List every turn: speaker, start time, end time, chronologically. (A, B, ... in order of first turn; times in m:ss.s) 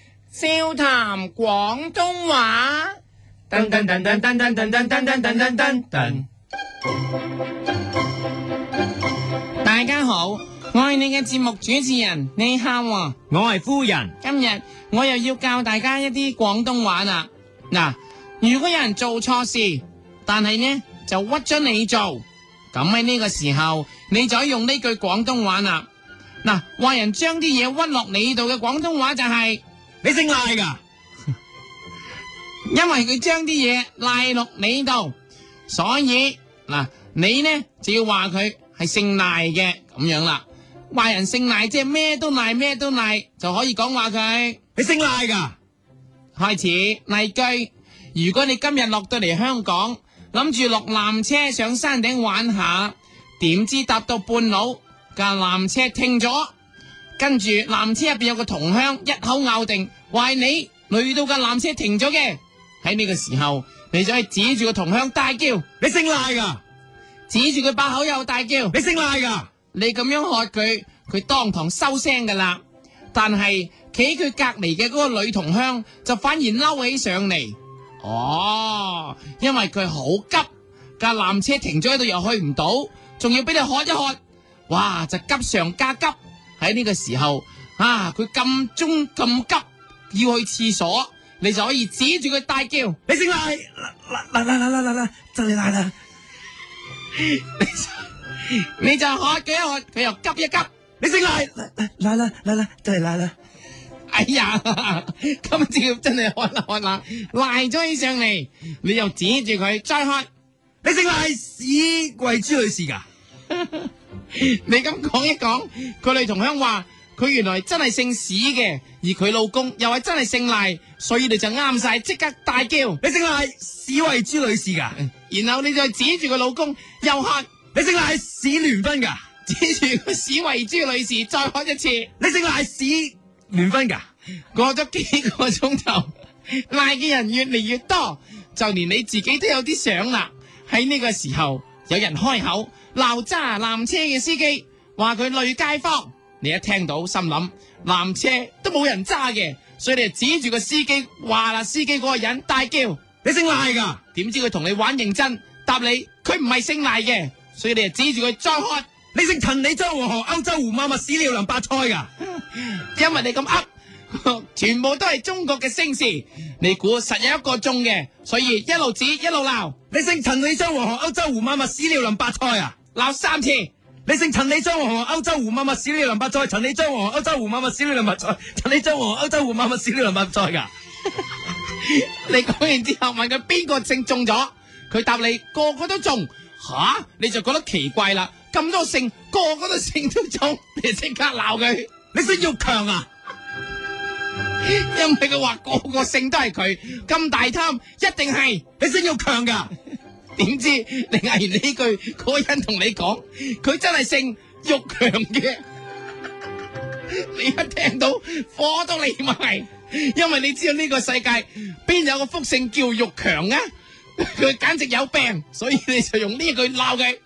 0:00.3-0:03.0 A
0:03.5-0:06.2 A
0:09.6-0:13.2 A
0:13.3-0:14.1 B
0:14.2-0:25.9 A
0:26.4-0:29.6 A
0:30.0-0:30.8 B
0:32.7-0:35.2 A
0:35.7-0:44.6 A
0:44.8-0:45.5 B
0:46.4-0:56.5 A
0:57.2-1:05.7 A
1:05.8-1:06.6 B
1:07.3-1:08.8 A
1:08.7-1:09.5 B
1:09.7-1:12.6 A
1:13.1-1:20.5 A
1:21.0-1:24.2 A
1:24.7-1:33.0 A
1:33.1-1:35.9 B
1:37.1-1:40.7 A
1:41.0-1:43.3 B
1:44.1-1:50.3 A
1:50.8-1:53.0 B
1:53.5-2:03.0 A
2:03.0-2:05.0 B
2:05.0-2:07.5 A
2:07.7-2:09.2 B
2:09.4-2:12.1 A
2:12.2-2:14.0 B
2:14.5-2:33.0 A
2:33.2-2:34.0 B
2:34.1-2:38.9 A
2:39.1-2:42.1 B
2:42.4-2:49.8 A
2:49.9-2:52.7 B
2:52.9-2:53.7 A
2:54.0-3:00.7 B
3:01.7-3:11.9 A
3:12.1-3:13.0 B
3:14.6-3:18.6 A
3:18.8-3:19.7 B
3:20.4-3:25.6 A
3:27.1-3:33.6 A
3:34.2-3:37.2 A